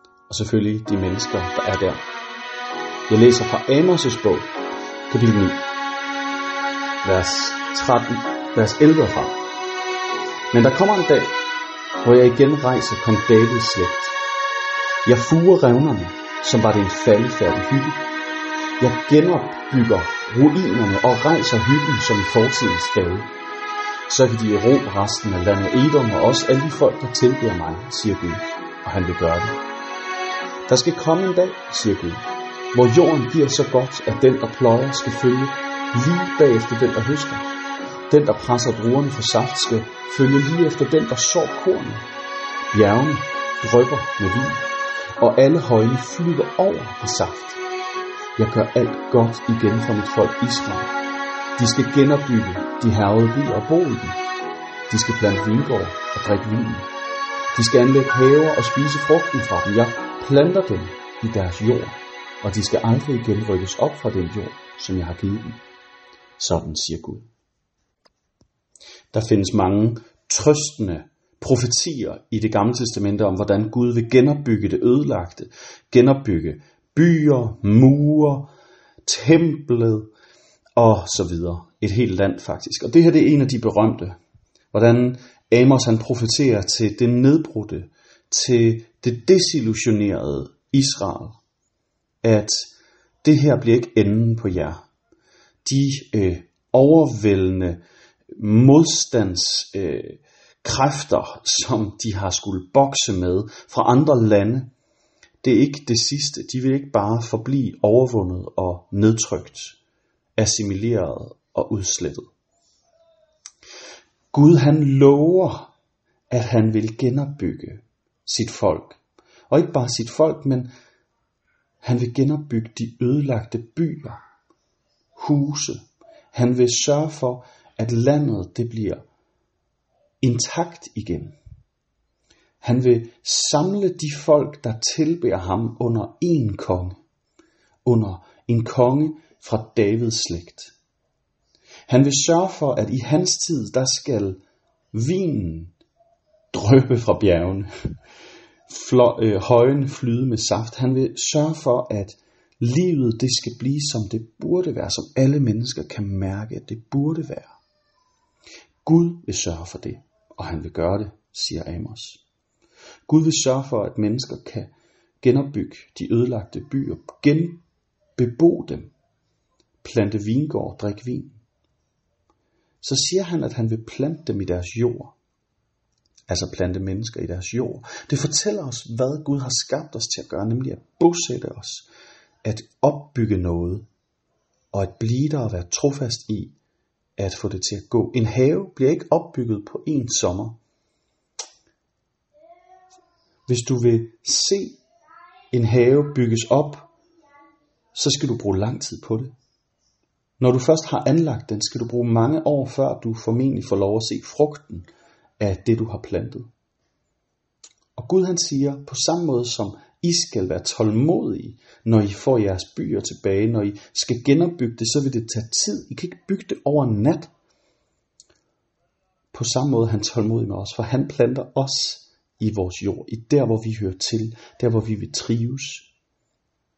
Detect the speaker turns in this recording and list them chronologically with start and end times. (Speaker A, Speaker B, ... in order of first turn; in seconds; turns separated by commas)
Speaker A: 0.3-2.0, Speaker A: 3.1-4.5, Speaker A: 5.1-5.6, Speaker A: 7.0-9.4, Speaker A: 10.5-11.3, Speaker A: 12.0-14.2, Speaker A: 15.0-18.0, Speaker A: 18.8-23.3, Speaker A: 24.1-29.6, Speaker A: 30.7-37.5, Speaker A: 38.1-42.0, Speaker A: 42.7-44.6, Speaker A: 45.2-47.6, Speaker A: 48.4-50.9, Speaker A: 51.6-54.2, Speaker A: 54.9-56.9, Speaker A: 57.5-65.6, Speaker A: 66.4-67.3, Speaker A: 69.1-78.5, Speaker A: 79.0-80.1, Speaker A: 80.8-84.2, Speaker A: 84.7-91.4, Speaker A: 92.2-92.7, Speaker A: 93.2-94.8, Speaker A: 95.6-97.8, Speaker A: 98.3-104.7, Speaker A: 105.4-109.8, Speaker A: 110.4-112.3, Speaker A: 114.3-115.7, Speaker A: 116.3-120.7, Speaker A: 121.8-124.2, Speaker A: 125.2-129.0, Speaker A: 130.2-131.3, Speaker A: 132.6-137.0, Speaker A: 137.8-140.7, Speaker A: 141.9-144.4, Speaker A: 144.9-145.7, Speaker A: 146.5-147.7, Speaker A: 148.7-157.5, Speaker A: 158.8-162.2, Speaker A: 163.1-167.6, Speaker A: 168.2-168.9, Speaker A: 169.8-171.4, Speaker A: 172.8-175.1, Speaker A: 176.3-181.9, Speaker A: 182.4-183.8, Speaker A: 184.7-186.5, Speaker A: 187.2-190.6, Speaker A: 193.5-194.8, Speaker A: 195.5-196.9, Speaker A: 197.9-199.3, Speaker A: 200.4-204.9, Speaker A: 205.4-206.5, Speaker A: 208.0-217.3, Speaker A: 219.3-225.9